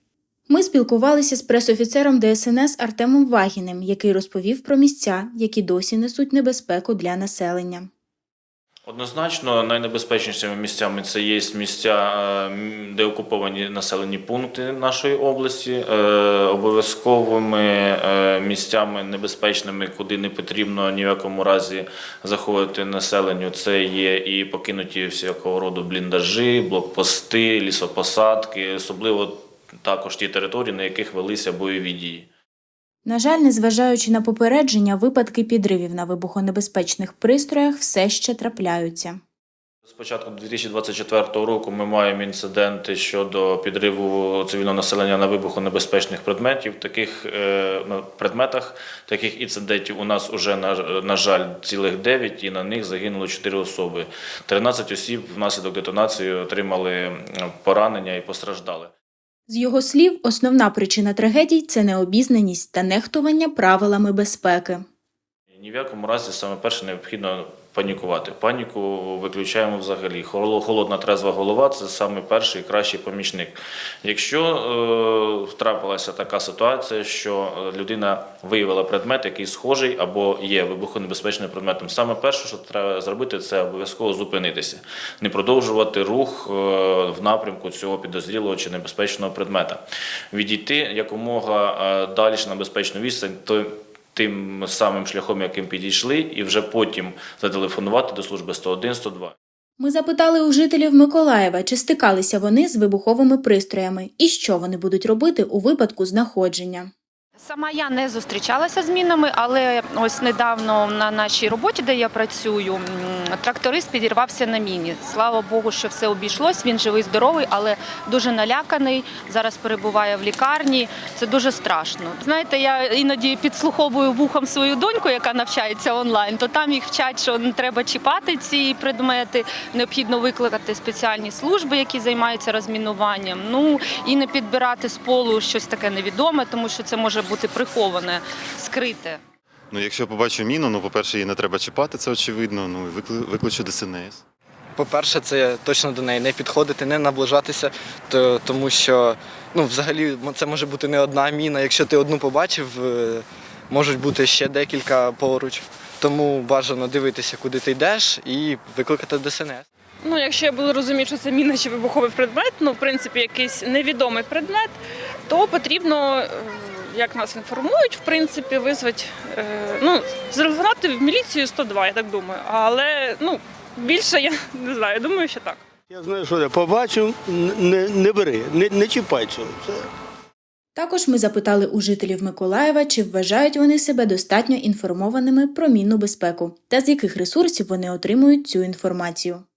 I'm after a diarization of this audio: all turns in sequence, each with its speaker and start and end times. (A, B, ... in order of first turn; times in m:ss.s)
0:00.5-0:07.9 A
0:08.8-0:32.3 B
0:33.0-0:39.2 A
0:39.8-0:58.9 B
0:59.5-1:04.8 A
1:05.5-1:39.3 B
1:39.8-1:46.9 A
1:47.4-2:19.2 C
2:19.7-2:24.2 D
2:24.8-2:39.6 E
2:40.1-2:44.7 F
2:45.3-2:46.2 F
2:47.0-2:55.6 F
2:55.9-2:59.9 G
3:00.7-3:09.4 A